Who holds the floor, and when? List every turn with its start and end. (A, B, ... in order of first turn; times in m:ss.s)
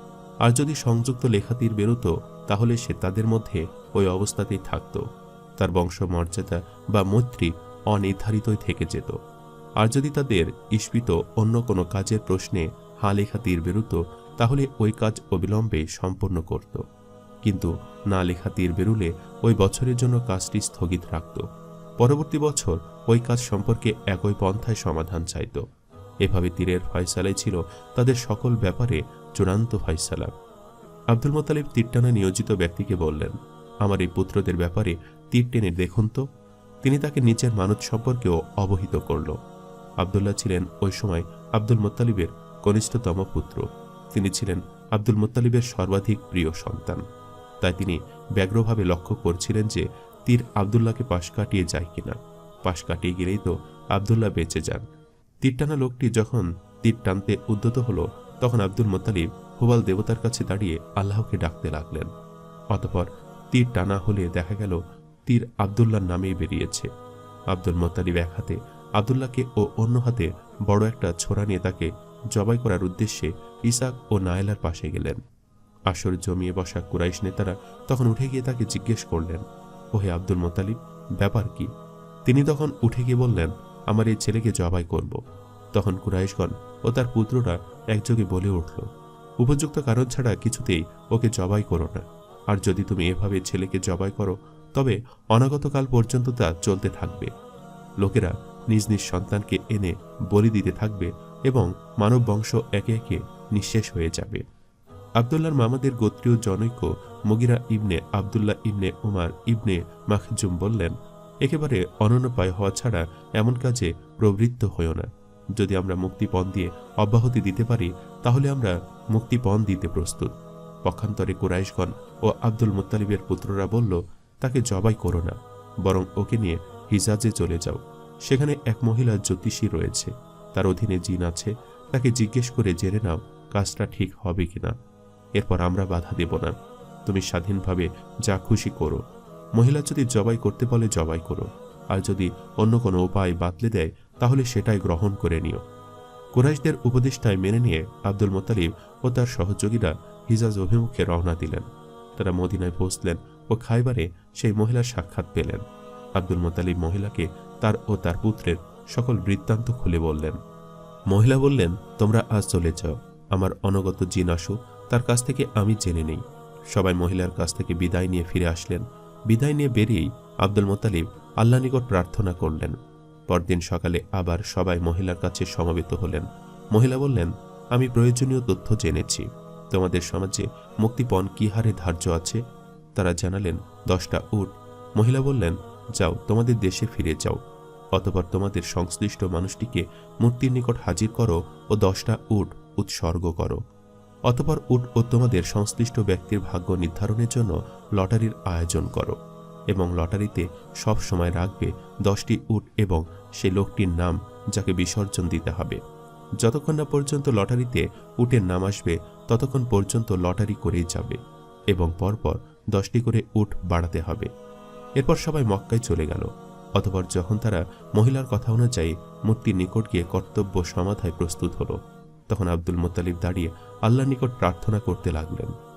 0:00.4-0:05.0 A
0:05.6-0:09.2 A
0:09.8-0:16.8 A
0:17.5-0:21.4 A
0:22.0-0:25.6 A
0:26.2-0:30.3 A
0:31.1-0:36.2 A
0:36.8-0:39.4 A
0:40.0-0:47.0 A
0:47.6-0:54.9 A
0:55.4-1:02.1 A
1:02.7-1:06.9 A
1:07.5-1:15.2 A
1:15.9-1:19.4 A
1:20.0-1:21.7 A
1:22.3-1:25.2 A
1:25.8-1:28.9 A
1:29.4-1:37.3 A
1:38.0-1:44.4 A
1:45.2-1:50.9 A
1:51.4-2:00.3 A
2:00.9-2:14.7 A
2:15.4-2:16.6 A
2:17.1-2:19.0 A
2:19.6-2:25.6 A
2:26.4-2:31.7 A
2:32.2-2:35.6 A
2:36.2-2:40.4 A
2:41.1-2:46.2 A
2:46.7-2:52.8 A
2:53.3-3:02.4 A
3:03.0-3:07.4 A
3:08.0-3:13.6 A
3:14.3-3:19.2 A
3:19.7-3:25.8 A
3:26.4-3:31.2 A
3:31.7-3:34.3 A
3:35.0-3:41.8 A
3:42.3-3:45.5 A